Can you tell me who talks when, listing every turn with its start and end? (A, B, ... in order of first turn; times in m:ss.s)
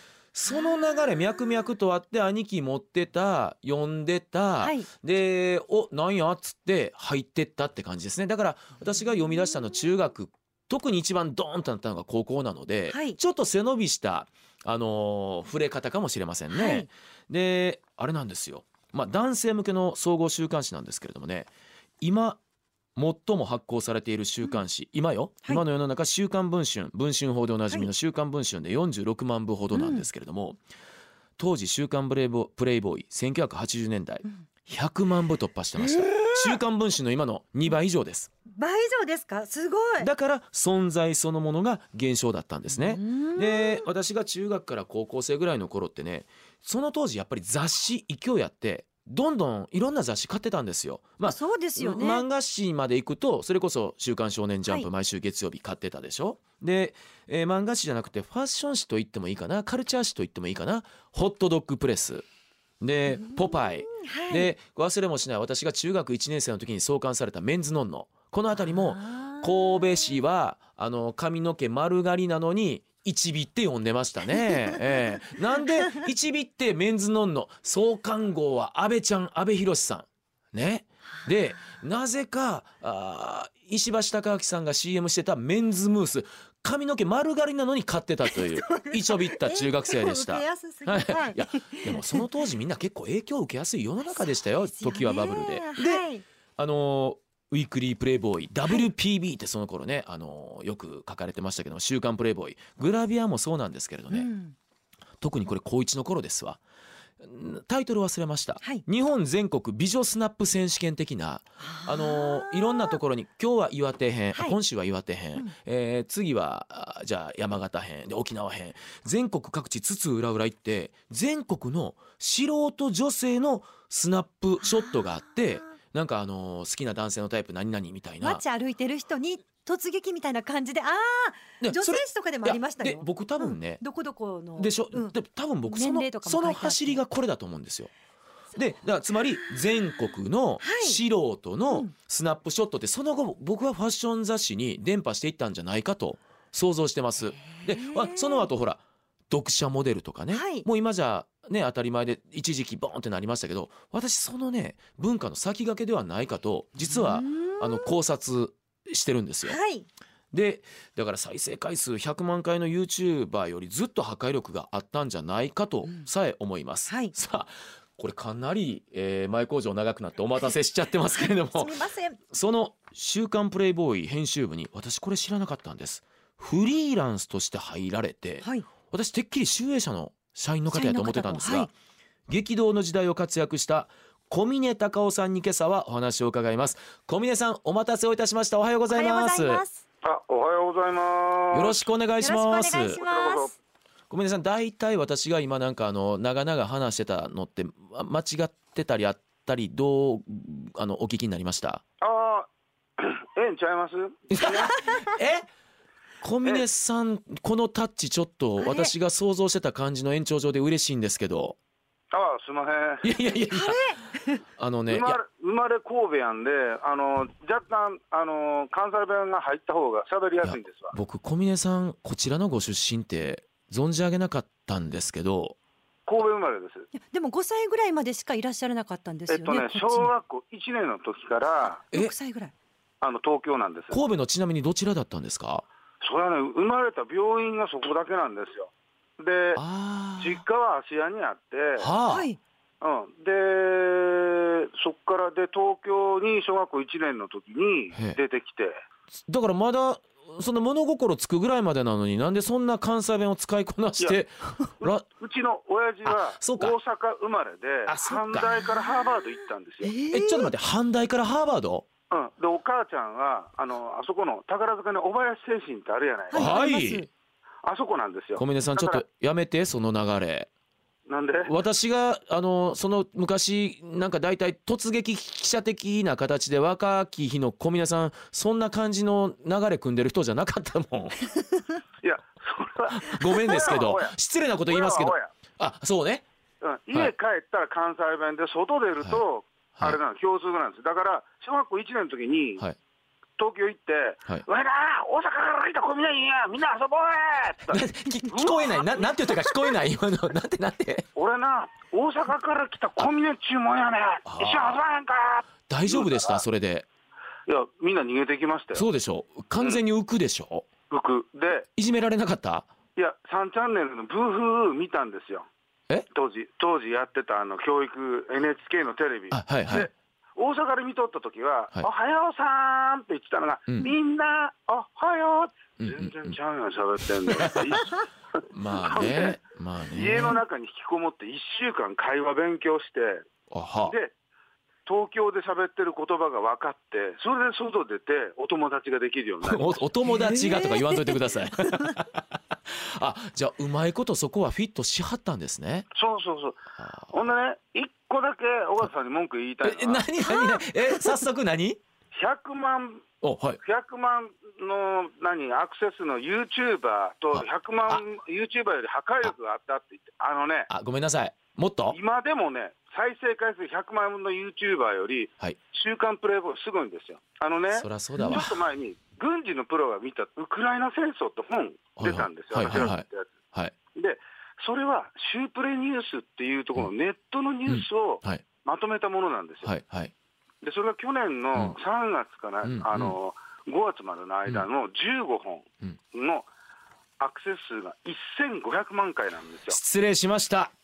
0:00.3-0:22.4 A
0:04.6-0:04.9 B
0:12.9-0:13.2 B
0:16.5-0:16.9 B
0:23.0-0:30.6 A
0:29.7-0:30.0 B
0:31.4-0:38.3 A
0:35.8-0:36.6 B
0:38.5-0:40.1 B
0:40.0-1:02.2 A
0:42.7-0:43.8 B
0:51.2-0:52.2 B
1:02.8-1:36.0 A
1:03.1-1:04.5 B
1:08.7-1:10.1 B
1:28.4-1:32.2 B
1:34.1-1:36.2 B
1:36.6-1:44.3 A
1:44.1-1:44.5 B
1:45.2-1:46.6 A
1:47.2-2:08.4 A
1:51.6-1:53.0 B
2:04.6-2:05.0 B
2:08.2-2:17.0 B
2:11.6-2:13.8 A
2:14.6-2:17.9 A
2:18.5-2:39.6 A
2:20.6-2:21.0 B
2:27.4-2:28.5 B
2:30.3-2:30.6 B
2:36.9-2:37.8 B
2:39.4-2:39.9 B
2:40.3-3:01.7 A
2:46.9-2:47.1 B
2:51.2-2:52.2 B
2:58.4-2:58.7 B
3:00.7-3:01.7 B
3:02.3-3:09.6 A
3:08.9-3:09.8 B
3:10.0-3:11.8 C
3:11.5-3:13.0 A
3:12.2-3:13.6 B
3:12.8-3:13.5 C
3:14.1-3:21.8 A
3:22.0-3:24.7 C
3:24.3-3:25.5 A
3:24.7-3:25.2 B
3:26.2-3:31.6 A
3:28.6-3:28.9 B
3:32.1-3:33.1 C
3:33.0-3:35.2 A
3:33.5-3:34.4 B
3:34.9-3:40.9 C
3:40.4-3:45.6 A
3:46.1-3:46.9 C
3:46.9-3:50.1 B
3:49.3-3:51.8 C
3:51.9-3:52.5 B
3:53.0-3:54.0 C
3:53.9-3:55.6 A
3:56.0-3:59.6 C
3:59.6-4:00.4 A
4:00.2-4:01.9 C
4:01.8-4:02.3 A
4:02.1-4:02.4 B
4:02.8-4:08.8 C
4:09.2-4:15.0 A
4:14.8-4:19.9 C
4:16.0-4:16.8 A
4:17.8-4:18.6 A
4:19.8-4:20.5 B
4:20.1-4:21.8 A
4:22.1-4:26.5 C
4:26.3-4:27.1 B
4:26.3-4:27.1 A
4:27.6-4:29.0 C
4:28.4-4:30.5 A
4:31.1-4:31.5 C
4:31.4-4:41.3 A
4:42.0-4:44.2 C
4:42.9-4:46.2 A
4:44.7-4:45.3 C
4:46.6-4:52.6 C
4:53.4-4:59.0 C
4:57.7-5:01.1 A
5:01.2-5:06.4 C
5:04.2-5:04.8 A
5:05.7-5:06.8 A
5:07.5-5:08.8 C
5:08.7-5:10.6 A
5:10.9-5:11.7 C
5:11.8-5:12.7 A
5:13.0-5:15.5 C
5:16.1-5:29.4 C
5:19.3-5:19.9 A
5:25.8-5:26.4 A
5:27.2-5:27.8 A
5:28.5-5:30.4 A
5:29.9-5:33.3 C
5:33.5-5:33.9 A
5:33.8-5:34.1 C
5:34.8-5:39.9 C
5:39.4-5:45.9 A
5:40.1-5:41.2 B
5:41.7-5:42.0 B
5:45.9-5:50.1 C
5:46.8-5:47.1 A
5:49.6-5:51.8 A
5:50.3-5:50.6 B
5:52.1-5:53.1 C
5:53.2-5:53.6 A
5:53.6-6:00.7 C
5:57.3-5:58.0 A
6:00.7-6:02.0 A
6:01.9-6:13.3 C
6:07.7-6:08.6 A
6:12.0-6:13.7 A
6:13.9-6:19.7 C
6:17.7-6:18.4 A
6:19.6-6:20.1 A
6:20.6-6:26.5 C
6:22.6-6:23.2 A
6:27.2-6:29.8 C
6:29.7-6:30.7 A